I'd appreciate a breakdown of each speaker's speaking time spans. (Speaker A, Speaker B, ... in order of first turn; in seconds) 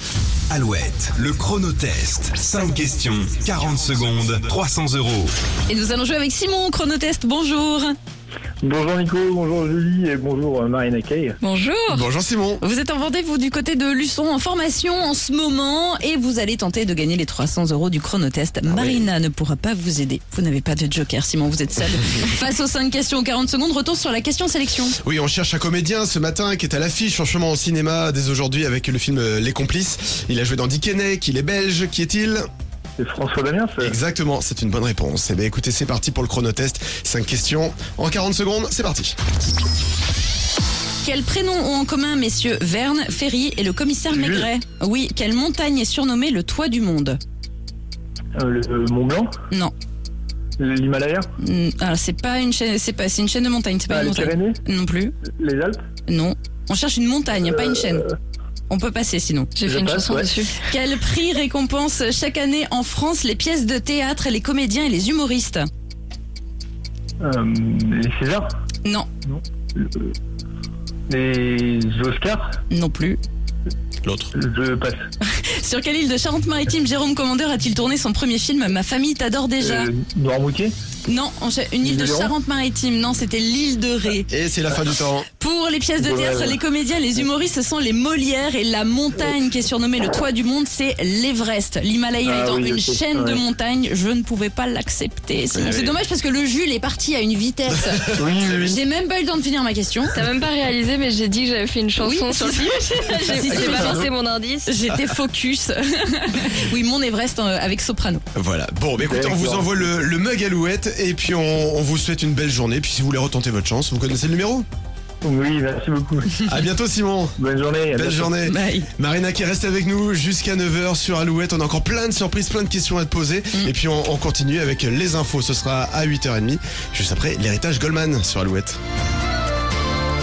Speaker A: 0.5-5.3
Speaker B: 5.7-8.0, 12.6-25.0, 41.0-47.2, 51.4-55.1, 56.1-58.1, 58.7-59.5, 60.7-65.7, 72.7-73.2, 75.2-79.9, 81.1-84.3, 85.3-100.1, 102.0-104.0, 104.7-108.2, 118.4-118.9
Speaker C: 8.6-11.4, 33.0-34.0, 44.1-44.5, 48.3-49.3, 50.6-51.3, 53.9-54.6, 55.2-55.8, 57.6-58.0, 59.6-60.4, 67.2-68.5, 69.3-70.1, 71.1-72.6, 74.3-75.0, 79.6-80.7, 81.8-82.3, 86.0-86.6, 92.2-93.4, 98.2-98.7, 109.0-109.9, 115.2-116.3, 117.4-118.3
Speaker D: 11.4-12.1, 59.5-60.6, 100.1-104.7
Speaker E: 11.9-12.6, 18.6-19.1, 25.0-32.4, 33.8-39.1, 74.0-74.3, 84.3-85.3, 95.5-96.0, 98.0-98.8, 108.3-114.7, 116.4-117.3, 117.9-128.8